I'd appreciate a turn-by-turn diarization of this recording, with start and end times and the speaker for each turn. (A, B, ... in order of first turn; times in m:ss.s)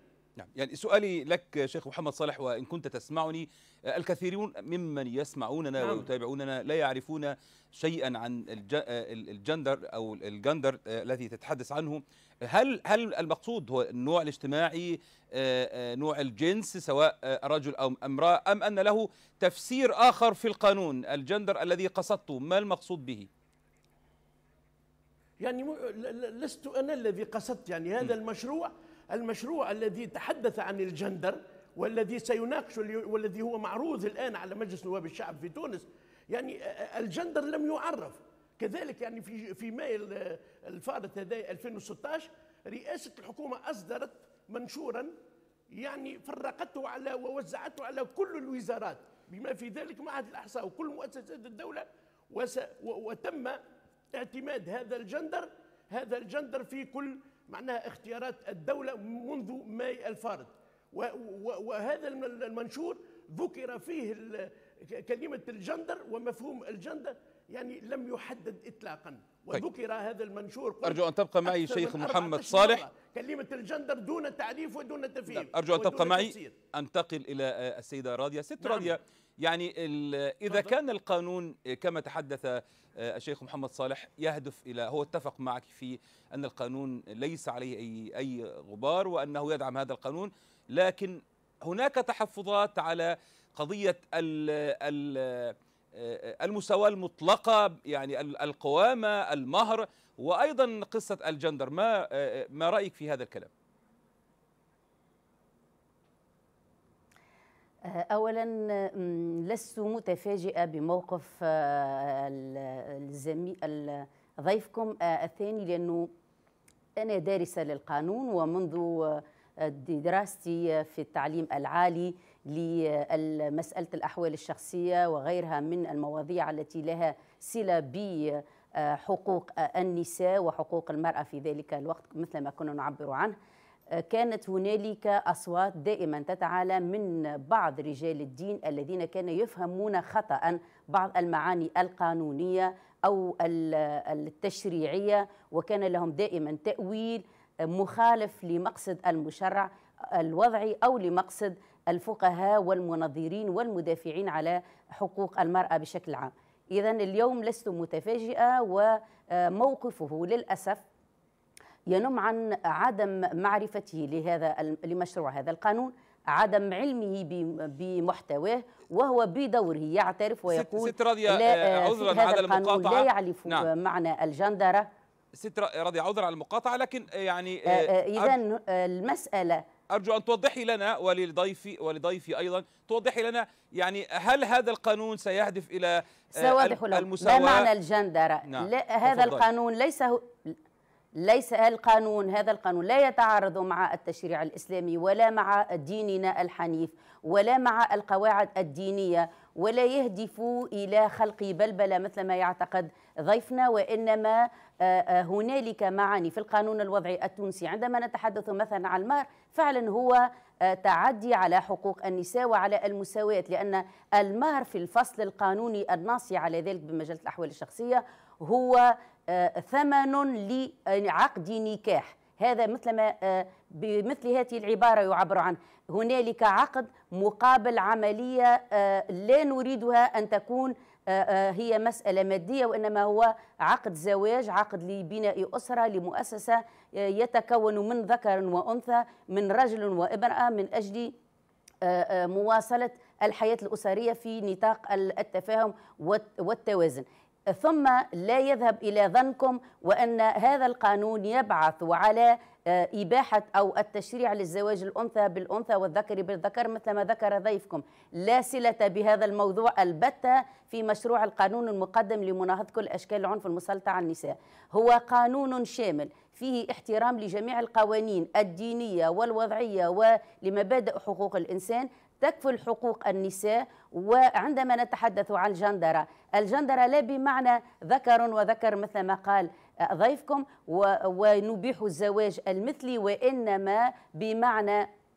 0:00.4-0:23.3 A
0:05.8-0:06.1 B
0:25.4-0:45.1 B
0:45.7-0:53.6 B
0:54.1-1:16.6 B
1:10.8-1:12.8 A
1:15.3-1:43.5 A
1:18.6-1:19.0 B
1:47.9-1:56.1 C
1:57.0-2:13.4 C
2:13.9-2:40.8 C
2:41.9-2:54.9 C
2:50.5-2:53.7 A
2:55.4-2:58.4 A
2:57.7-2:59.6 C
2:59.9-3:07.7 A
3:06.3-3:10.6 C
3:08.5-3:09.4 A
3:11.2-4:01.1 C
4:01.8-4:44.9 C